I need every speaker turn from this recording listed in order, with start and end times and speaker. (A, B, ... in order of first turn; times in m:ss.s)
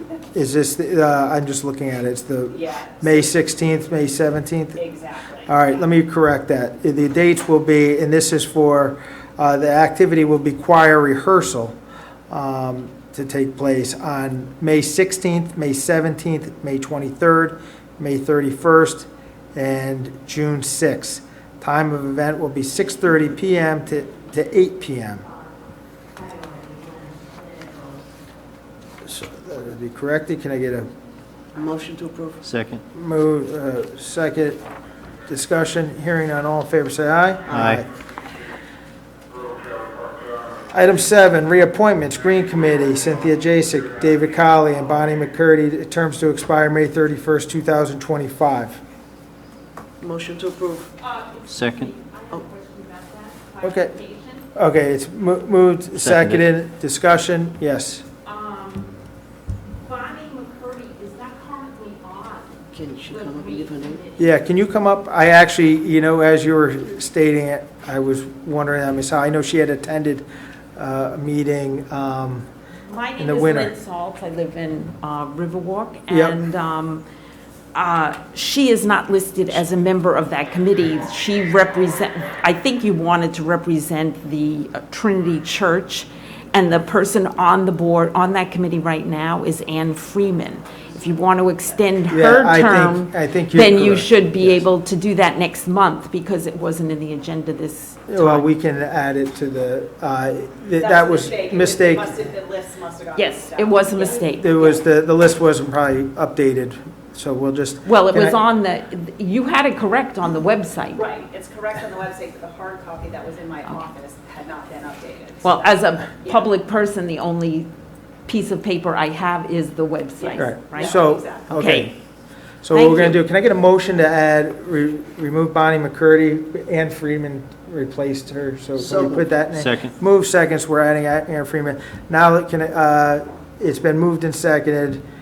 0:00.3-0:04.8 A
0:02.5-0:03.3 B
0:04.8-0:05.5 B
0:05.4-0:11.7 A
0:12.3-0:25.2 A
0:26.2-0:27.6 C
0:29.0-0:30.9 A
0:31.5-0:32.4 D
0:32.4-0:32.8 E
0:32.9-0:34.6 A
0:35.3-0:37.9 A
0:37.5-0:37.8 E
0:40.7-0:48.8 A
0:50.0-0:50.9 D
0:51.0-0:54.4 C
0:51.5-0:51.9 E
0:53.6-0:54.0 A
0:54.5-0:58.0 A
0:56.0-0:56.4 E
0:58.2-0:59.0 C
0:59.8-1:04.2 C
1:02.7-1:04.0 D
1:04.2-1:12.5 A
1:12.9-1:17.0 C
1:13.2-1:13.7 A
1:16.1-1:16.4 A
1:17.7-1:38.4 C
1:32.1-1:34.6 A
1:38.1-1:42.2 A
1:40.8-1:44.3 B
1:43.1-1:44.8 C
1:44.4-1:48.4 A
1:47.8-1:51.0 C
1:51.0-1:56.5 B
1:55.4-1:57.7 C
1:58.2-2:01.0 C
2:00.2-2:01.6 B
2:00.4-2:01.9 A
2:01.5-2:01.9 C
2:02.6-2:15.0 A
2:02.7-2:03.2 C
2:08.8-2:09.2 D
2:09.5-2:09.9 E